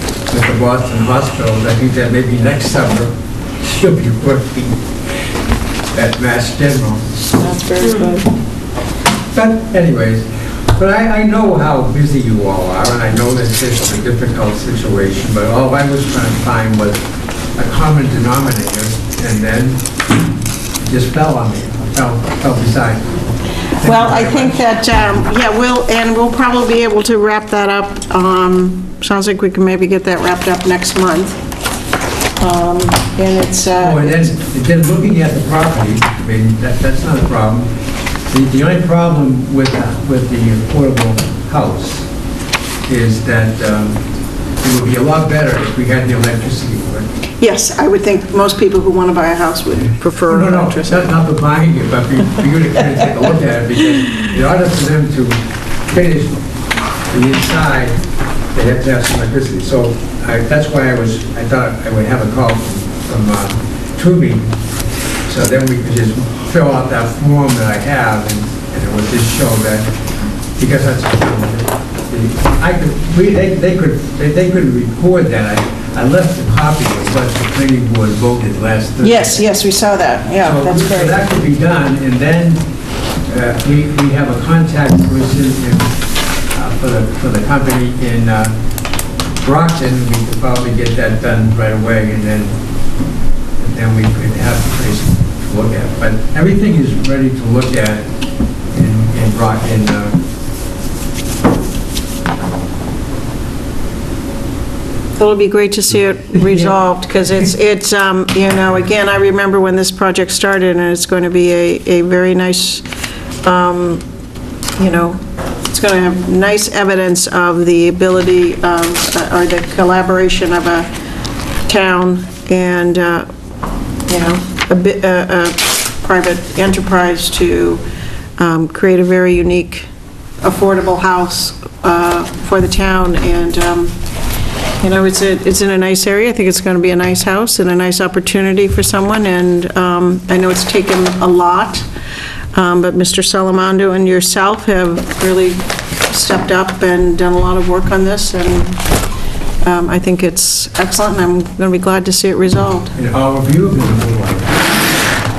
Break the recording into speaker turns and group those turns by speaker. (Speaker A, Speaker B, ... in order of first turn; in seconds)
Speaker A: 0.3-3.1, 3.7-4.8, 5.9-7.1, 9.3-17.0, 17.6-19.8, 20.8-23.2, 23.8-24.7, 33.8-37.7, 38.3-42.1, 42.9-44.0, 44.6-47.1, 50.3-56.4, 57.1-58.0, 58.5-64.6, 65.2-69.9, 70.6-79.5, 80.4-82.7, 83.2-86.0, 86.5-88.5, 89.3-92.6, 93.6-98.1, 98.7-100.2, 152.9-154.7
Speaker B: 7.3-8.3, 23.8-31.4, 32.4-34.3, 47.4-51.0, 79.0-81.1, 105.2-112.8, 113.4-114.0, 114.8-120.9, 121.7-123.3, 124.1-127.8, 128.4-129.9, 130.4-133.9, 134.8-141.8, 142.5-148.8, 149.6-152.9